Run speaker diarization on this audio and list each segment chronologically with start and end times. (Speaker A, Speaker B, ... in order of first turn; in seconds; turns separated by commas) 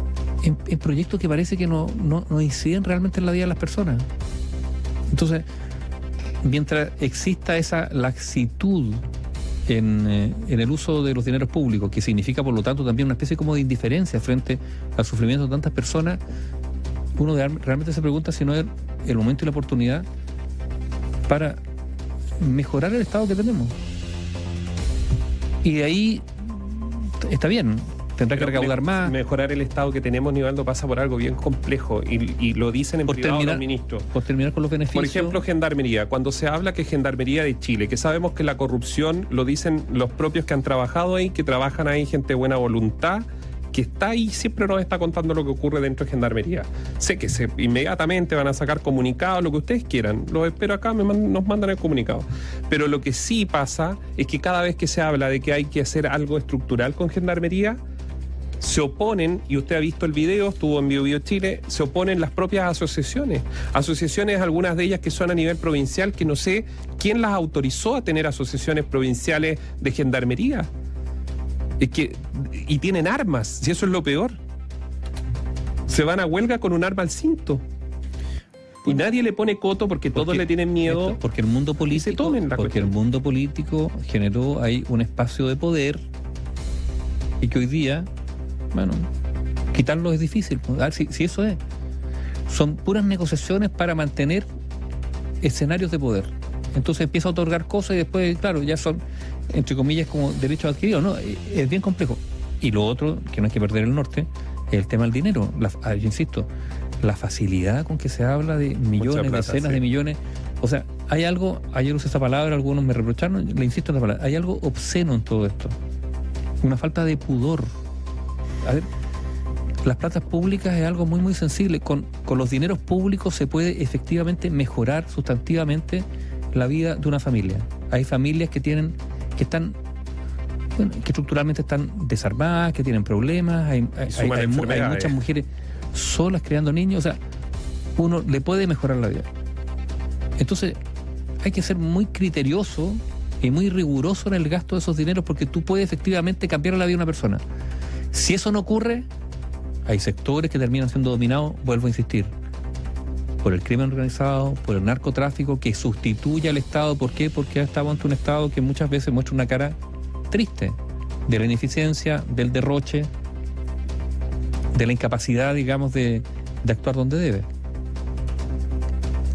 Speaker A: 0.4-4.1, Speaker A: 5.1-5.5, Speaker A: 6.4-9.1, Speaker A: 9.7-16.2, Speaker A: 17.2-20.1, Speaker A: 21.3-21.6, Speaker A: 22.4-23.8, Speaker A: 25.6-29.2, Speaker B: 28.4-34.1, Speaker A: 33.1-35.4, Speaker B: 34.9-57.8, Speaker B: 58.6-70.7, Speaker B: 71.8-74.4, Speaker B: 75.9-77.6, Speaker B: 78.8-81.2, Speaker A: 80.1-86.1, Speaker B: 81.9-83.0, Speaker A: 87.4-88.1, Speaker A: 88.7-89.1, Speaker A: 89.7-91.6, Speaker A: 92.5-94.5, Speaker A: 95.4-106.5, Speaker A: 107.0-115.8, Speaker B: 109.0-109.8, Speaker A: 116.6-117.7, Speaker A: 119.8-129.8, Speaker A: 130.8-137.2, Speaker B: 134.1-135.2, Speaker A: 138.0-139.3, Speaker A: 140.4-140.8, Speaker A: 141.4-147.4, Speaker A: 148.1-149.1, Speaker A: 149.9-152.3, Speaker A: 153.4-159.8, Speaker A: 160.3-163.1, Speaker A: 164.7-167.5